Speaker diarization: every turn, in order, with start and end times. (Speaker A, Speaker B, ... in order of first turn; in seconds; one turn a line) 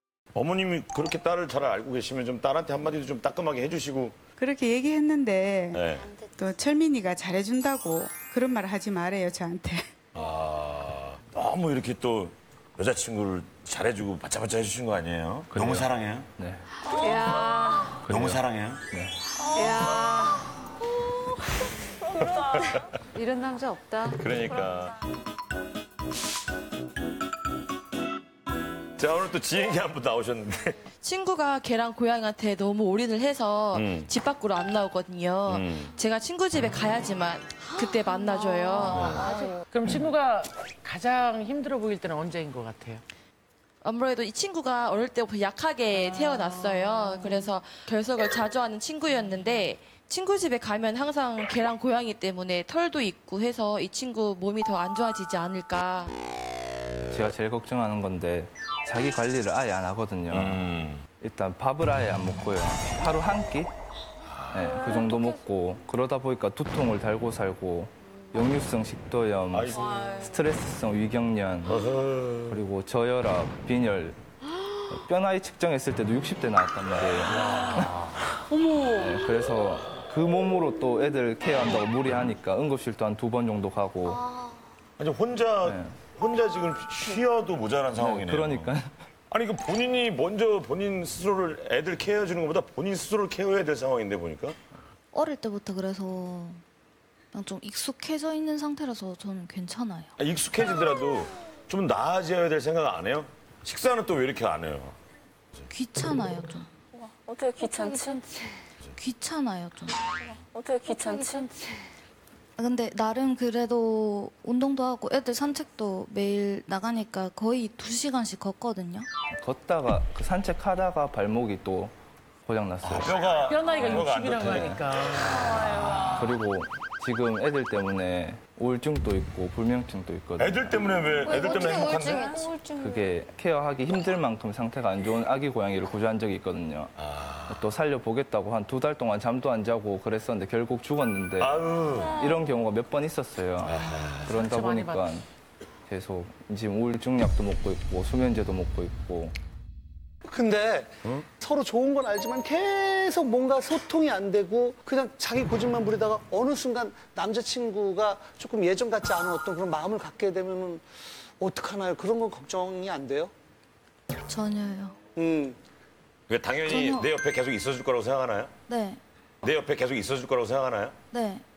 Speaker A: 0.3-4.2
Speaker B: 4.4-5.8
Speaker A: 5.7-6.0
Speaker C: 6.0-6.4
Speaker B: 6.4-9.9
Speaker A: 10.2-16.3
Speaker D: 15.5-16.6
Speaker E: 16.9-18.0
Speaker F: 16.9-18.0
Speaker D: 18.0-19.1
Speaker A: 18.1-18.8
Speaker E: 19.4-20.4
Speaker F: 19.5-20.4
Speaker E: 22.1-22.7
Speaker F: 22.2-22.6
Speaker F: 23.1-24.2
Speaker A: 24.2-24.9
Speaker A: 29.0-30.8
Speaker G: 31.0-39.1
Speaker A: 33.7-34.1
Speaker A: 35.5-35.9
Speaker F: 38.6-39.6
Speaker H: 38.8-43.0
Speaker A: 38.9-39.2
Speaker G: 43.8-56.1
Speaker H: 46.0-47.5
Speaker D: 57.1-60.6
Speaker A: 60.3-61.0
Speaker D: 61.2-63.7
Speaker A: 64.3-64.8
Speaker D: 64.5-71.8
Speaker E: 64.9-65.3
Speaker A: 69.5-69.8
Speaker E: 69.8-70.3
Speaker A: 71.7-72.6
Speaker D: 72.5-74.2
Speaker D: 74.9-78.1
Speaker A: 77.4-77.7
Speaker D: 78.9-84.2
Speaker C: 84.0-84.6
Speaker A: 85.0-88.8
Speaker D: 85.6-85.9
Speaker D: 88.0-88.9
Speaker A: 89.3-94.6
Speaker I: 95.1-96.6
Speaker I: 97.3-100.1
Speaker A: 100.2-105.0
Speaker I: 105.7-106.7
Speaker E: 106.9-108.5
Speaker F: 107.6-108.2
Speaker I: 109.0-110.0
Speaker E: 110.2-111.7
Speaker F: 110.9-111.5
Speaker I: 112.6-119.1
Speaker D: 119.3-121.9
Speaker D: 122.5-124.8
Speaker A: 122.8-126.3
Speaker H: 123.4-125.6
Speaker E: 125.6-126.1
Speaker D: 126.2-131.0
Speaker A: 130.4-132.3
Speaker C: 131.2-133.0
Speaker E: 131.6-132.4
Speaker D: 132.8-136.9
Speaker A: 137.0-137.7
Speaker D: 137.5-145.2
Speaker A: 141.4-142.2
Speaker A: 143.6-144.3
Speaker H: 144.2-145.2
Speaker D: 145.9-149.3
Speaker J: 150.2-160.8
Speaker J: 161.4-163.3
Speaker I: 164.3-165.0
Speaker J: 165.2-165.6
Speaker A: 166.3-168.5
Speaker I: 166.7-167.1
Speaker I: 168.7-169.0
Speaker A: 169.4-170.9
Speaker I: 171.1-171.4